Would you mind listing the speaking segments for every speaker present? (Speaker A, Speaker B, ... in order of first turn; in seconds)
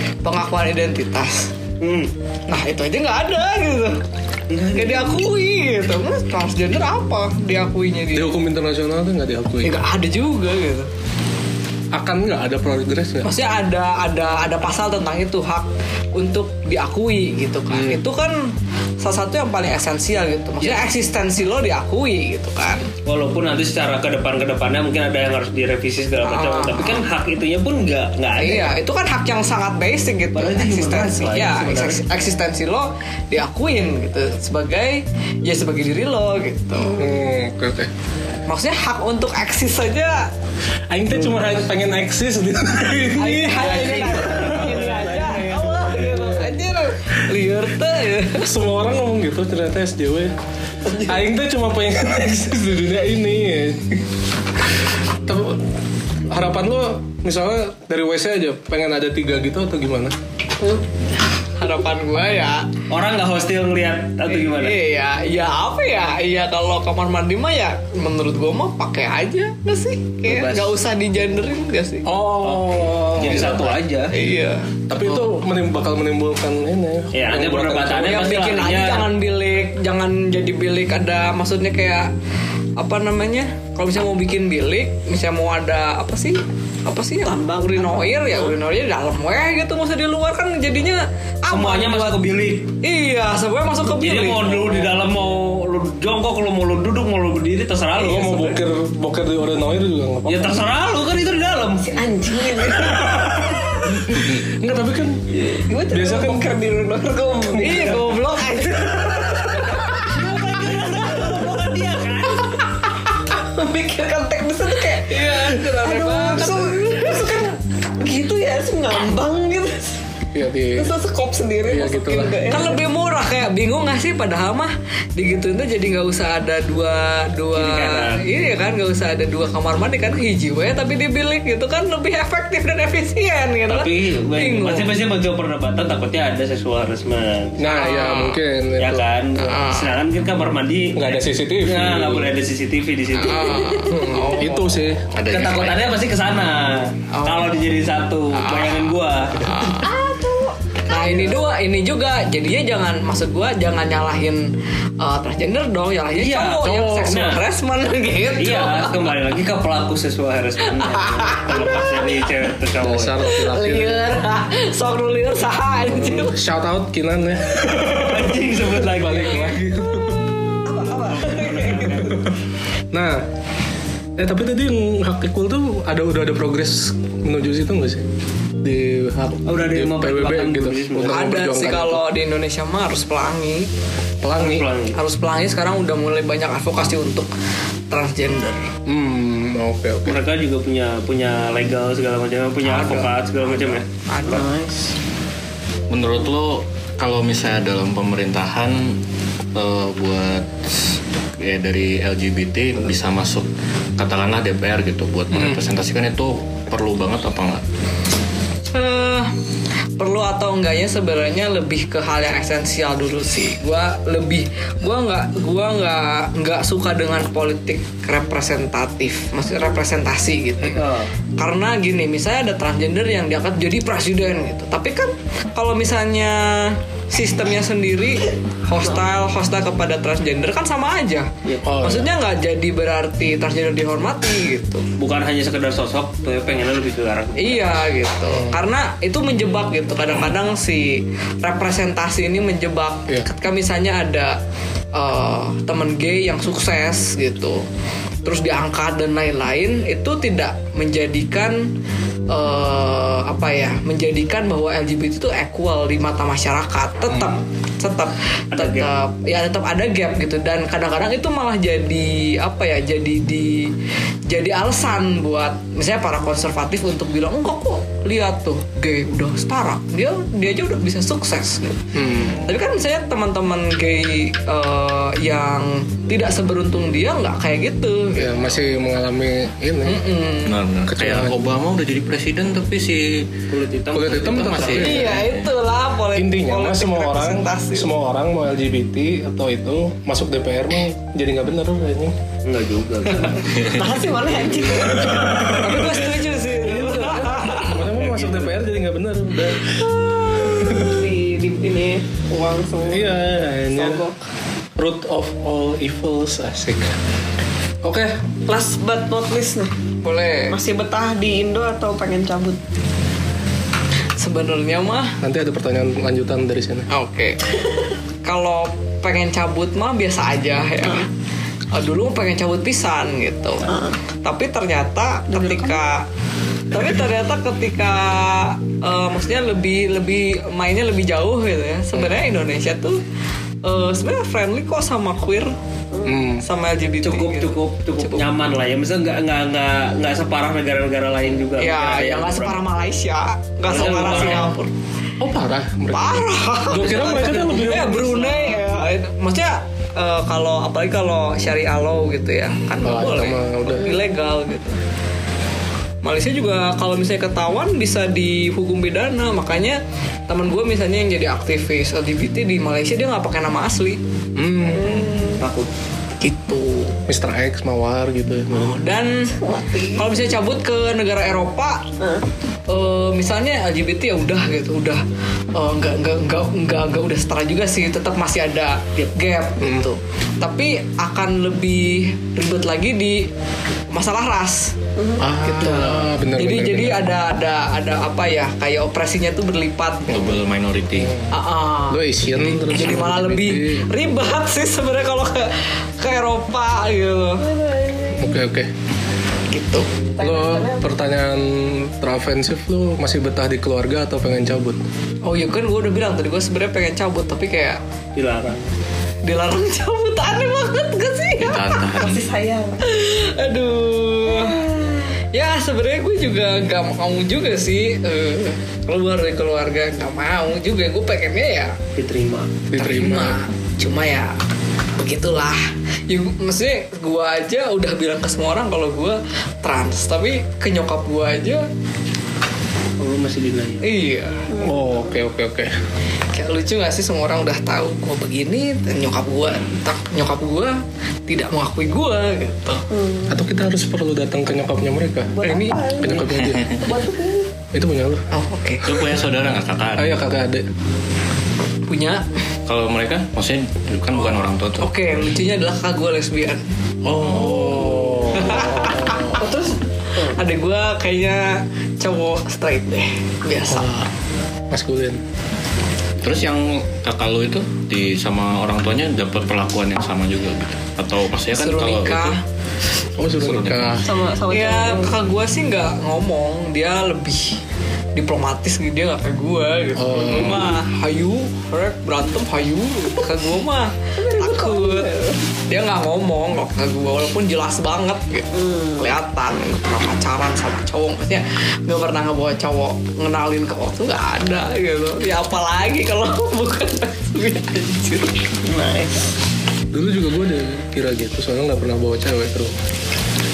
Speaker A: 0.2-1.5, 2.5-4.0, 4.7-8.3, 9.6-10.9, 13.2-22.9, 26.2-27.0, 28.4-37.1, 38.5-40.3, 43.2-48.5, 61.6-62.6, 64.3-72.1, 74.1-75.2, 78.0-82.1, 82.8-92.2, 92.8-94.9, 107.6-109.6, 115.1-116.8, 122.5-134.9, 137.6-138.4, 139.4-139.9, 143.2-144.8, 147.1-147.5, 150.9-154.5, 155.0-159.1, 160.7-162.2, 163.3-166.3, 181.1-183.7, 184.9-187.3, 187.9-188.6, 192.6-194.5, 208.7-209.3, 210.0-234.9, 237.4-244.4, 244.9-247.6, 248.2-251.7, 252.3-263.7, 264.3-271.9, 272.4-278.6, 279.8-280.6, 284.7-287.9, 295.6-297.9, 310.0-310.6, 314.2-315.2, 316.9-317.4, 318.2-321.1, 321.7-326.1, 326.7-333.0, 333.6-335.5, 336.4-338.2, 341.6-344.7, 345.9-354.8, 356.0-364.0, 366.2-367.0, 368.5-369.3, 369.9-371.8, 372.7-375.0, 375.5-383.3, 383.9-384.8, 385.4-390.2, 391.3-397.5, 399.5-399.9, 405.2-407.8, 409.2-411.8, 412.8-414.6, 415.3-421.8, 422.8-424.3, 425.0-431.7, 433.8-434.4, 436.3-442.8, 448.3-448.9, 451.9-452.2, 454.8-456.7, 458.3-459.4, 460.2-463.9, 471.5-472.4, 474.5-477.6, 478.1-485.1, 485.7-498.3
Speaker B: 1.8-2.1, 4.5-5.2, 23.1-28.7, 30.4-32.0, 43.6-45.8, 62.9-64.8, 70.3-70.8, 72.4-74.1, 77.1-79.1, 91.5-92.7, 93.9-98.6, 100.3-102.0, 109.7-112.7, 127.5-128.2, 133.7-137.6, 138.8-143.8, 145.3-149.4, 156.1-157.4, 158.4-163.3, 167.9-169.6, 171.3-172.2, 179.5-181.3, 184.4-185.0, 190.1-193.9, 220.7-221.1, 235.0-237.8, 258.5-258.9, 283.5-285.1, 292.4-295.8, 297.8-298.6, 337.0-342.6, 343.7-344.6, 346.9-347.6, 365.4-365.7, 408.2-408.7, 421.9-422.5, 433.0-433.9
Speaker C: 8.1-9.8, 11.9-13.3, 17.7-18.0, 37.0-37.9, 40.9-44.7, 48.4-50.3, 50.9-54.0, 55.3-55.6, 56.3-60.1, 72.0-73.8, 74.9-78.3, 97.9-100.6, 103.9-105.2, 105.9-106.5, 120.3-120.9, 121.6-122.4, 137.6-139.7, 140.9-142.3, 143.7-145.1, 156.6-157.2, 162.8-164.1, 165.9-170.4, 171.9-172.3, 172.9-173.2, 174.2-178.1, 178.6-182.0, 184.2-184.7, 188.9-190.2, 231.6-232.1, 238.3-238.6, 271.9-272.5, 278.1-280.0, 280.9-281.4, 283.9-285.3, 286.1-292.1, 295.5-301.1, 302.9-304.0, 304.8-306.9, 307.8-308.1, 315.2-316.9, 336.0-336.4, 343.7-344.6, 345.2-348.5, 352.8-354.0, 364.4-365.1, 367.1-368.8, 379.6-379.9, 385.2-387.1, 391.0-391.3, 391.9-393.9, 398.2-398.7, 400.2-404.8, 422.7-423.4, 434.6-435.7, 443.3-446.9, 447.7-448.2, 450.0-450.7, 457.1-459.4, 463.7-464.1, 464.7-465.2, 473.2-474.1, 480.0-480.8, 499.9-502.7
Speaker D: 44.6-45.2, 87.3-88.1, 101.8-103.3, 105.3-108.2, 113.2-120.0, 120.7-122.8, 149.7-150.6, 170.7-172.2, 194.3-194.9, 293.1-295.6, 300.0-303.2, 303.8-304.1, 308.5-309.7, 310.5-312.6, 323.7-324.0, 325.3-325.8, 364.8-365.4, 369.3-370.1, 385.0-385.3, 397.4-398.4, 400.2-400.9, 411.9-412.8, 414.3-415.1, 434.5-435.0, 442.9-443.3, 445.3-447.5, 459.4-460.4, 474.0-475.2, 484.2-485.4, 488.6-489.0, 498.6-499.3
Speaker E: 145.1-146.0, 149.4-149.9, 195.9-199.0, 199.5-200.5, 201.4-207.6, 280.4-283.3, 284.1-285.5, 390.1-391.1, 411.4-412.3, 448.8-450.2, 452.7-454.9, 466.2-472.4, 473.3-474.0